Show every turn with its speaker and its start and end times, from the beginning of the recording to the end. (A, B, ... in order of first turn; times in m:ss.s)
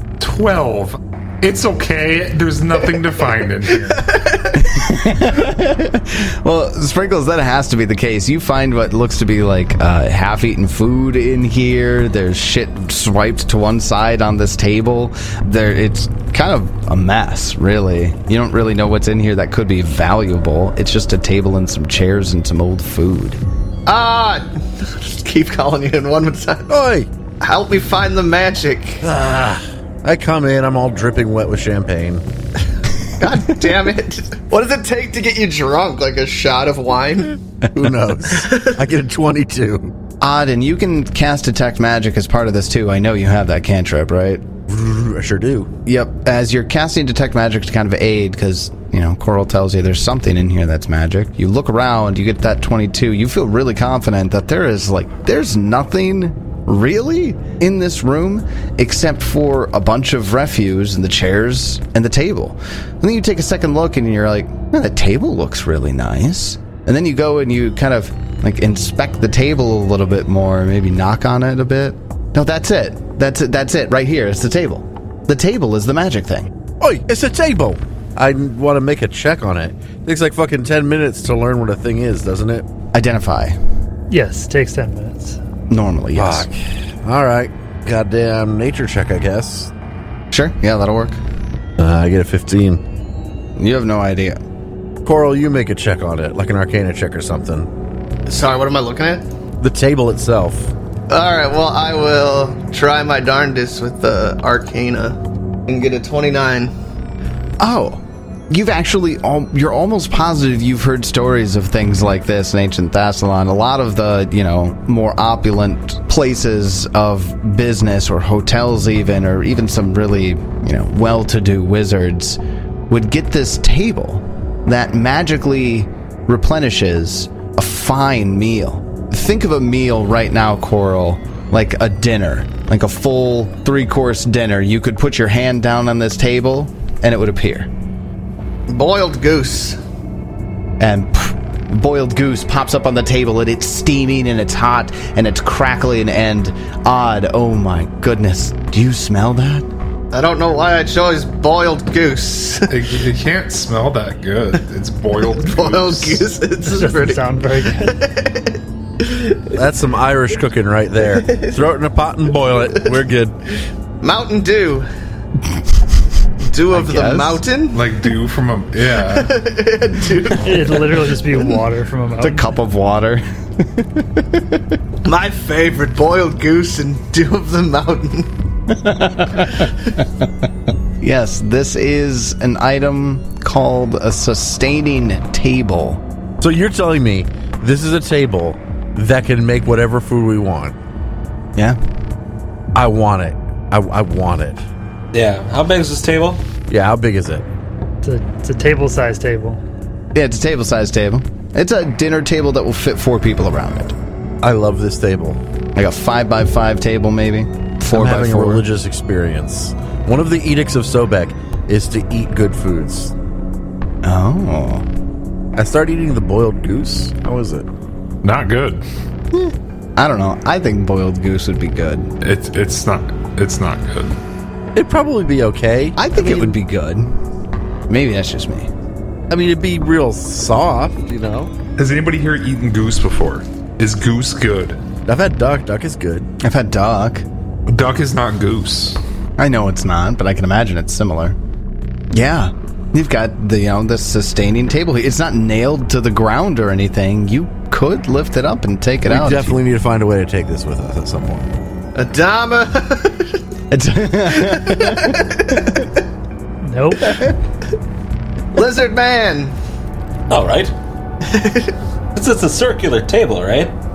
0:00.2-0:04.1 A
0:03.8-0:04.8 B
0:04.6-0:23.4 C
0:23.8-0:26.7 B
0:26.7-0:27.1 D
0:27.4-0:29.0 B
0:29.0-0:32.2 D
0:33.2-0:37.4 B
0:37.7-0:39.9 D
0:38.3-0:38.9 B
0:40.2-0:44.4 C
0:44.7-0:45.7 D
0:45.8-1:16.5 C
1:16.8-1:22.6 D
1:22.9-1:23.6 C
1:24.1-1:25.4 E
1:25.7-1:26.5 C
1:26.2-1:29.7 D
1:30.3-1:31.2 C
1:31.8-1:32.8 D
1:33.6-1:34.4 C
1:35.0-1:37.7 D
1:38.3-1:39.2 B
1:39.6-1:40.7 D
1:41.1-1:46.7 B
1:47.6-2:17.7 C
2:18.7-2:19.8 B
2:20.8-2:29.7 C
2:30.1-2:32.8 B
2:32.7-2:36.3 A
2:35.3-2:39.6 B
2:36.6-2:38.0 E
2:39.5-2:43.4 D
2:41.2-2:41.6 B
2:44.0-2:44.9 B
2:46.4-2:47.9 B
2:46.7-2:47.4 C
2:47.7-2:49.4 A
2:49.0-2:51.0 B
2:50.4-2:52.5 E
2:52.2-2:54.6 C
2:55.0-2:58.3 B
2:58.7-2:59.7 C
3:01.0-3:06.0 C
3:06.4-3:10.7 D
3:12.7-3:14.6 D
3:15.1-3:16.4 F
3:16.7-3:17.4 D
3:18.0-3:19.6 E
3:20.1-3:23.9 C
3:24.4-3:25.4 D
3:25.7-3:28.6 C
3:27.9-3:33.1 D
3:34.0-3:34.8 C
3:35.6-3:37.7 D
3:38.2-3:38.8 A
3:39.3-3:42.1 C
3:42.2-3:44.2 A
3:44.7-3:46.5 D
3:46.0-3:47.1 C
3:47.9-3:48.7 C
3:49.3-3:51.5 D
3:51.8-3:54.8 A
3:55.1-3:56.3 D
3:56.4-3:57.2 C
3:57.7-3:59.0 A
3:59.4-4:01.4 C
4:02.1-4:09.6 C
4:09.0-4:11.5 D
4:11.9-4:13.3 B
4:13.7-4:15.8 C
4:14.4-4:16.0 B
4:16.6-4:17.2 E
4:18.5-4:19.5 B
4:20.3-4:20.7 F
4:21.2-4:21.7 B
4:22.1-4:23.7 F